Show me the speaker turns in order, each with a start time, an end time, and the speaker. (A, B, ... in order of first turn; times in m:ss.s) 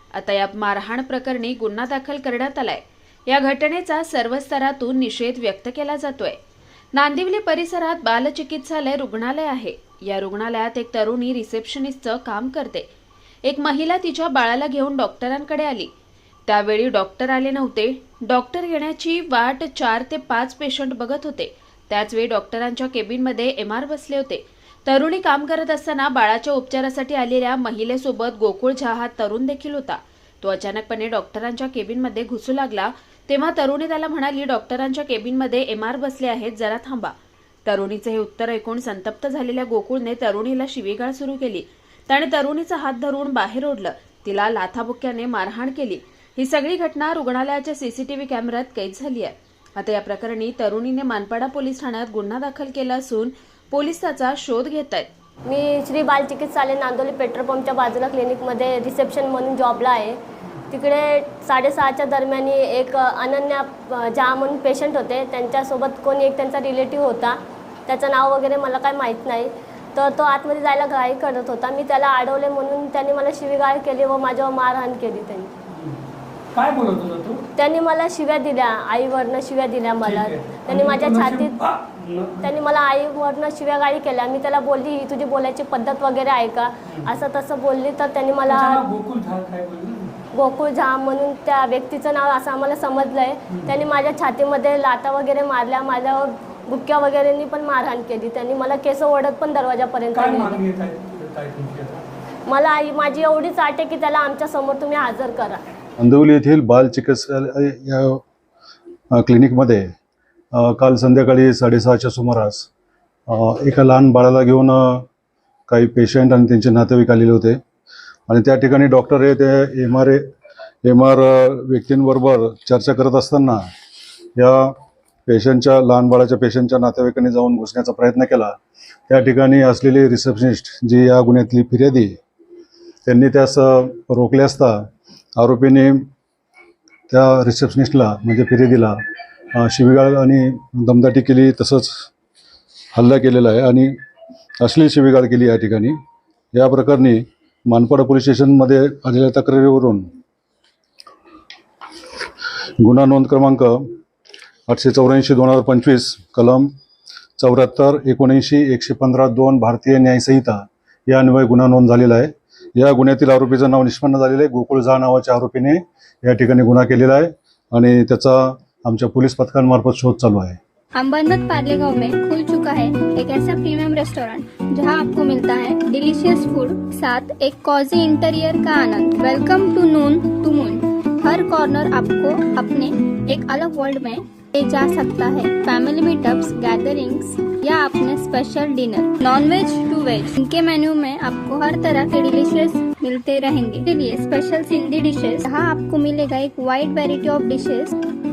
0:00.2-0:06.4 A
0:07.0-0:12.9 A
0:13.5-0:15.9 A
0:16.5-0:37.1 A
0:37.6-0:55.1 A
0:55.4-1:00.2 B
1:00.7-1:15.5 B
1:15.7-1:16.0 C
1:16.5-1:17.4 C
1:17.6-1:21.5 B
1:20.0-1:22.5 C
1:22.4-1:28.8 B
1:28.5-1:30.2 C
1:30.3-1:40.6 B
1:33.5-1:33.8 C
1:40.1-1:42.1 C
1:42.5-1:45.6 B
1:46.0-1:48.2 D
1:49.1-1:49.9 D
1:50.5-1:52.7 D
1:53.3-1:55.0 D
1:55.7-1:57.6 D
1:58.3-2:00.2 D
2:00.8-2:03.6 D
2:04.4-2:04.7 D
2:05.3-2:08.5 D
2:09.1-2:12.2 D
2:13.0-2:14.8 D
2:15.4-2:16.0 D
2:17.1-2:19.0 D
2:19.5-2:22.1 D
2:22.9-2:23.9 D
2:24.6-2:25.9 D
2:26.5-2:30.1 D
2:32.8-2:33.8 D
2:34.7-2:36.7 D
2:37.4-2:50.6 D
2:50.9-3:17.9 E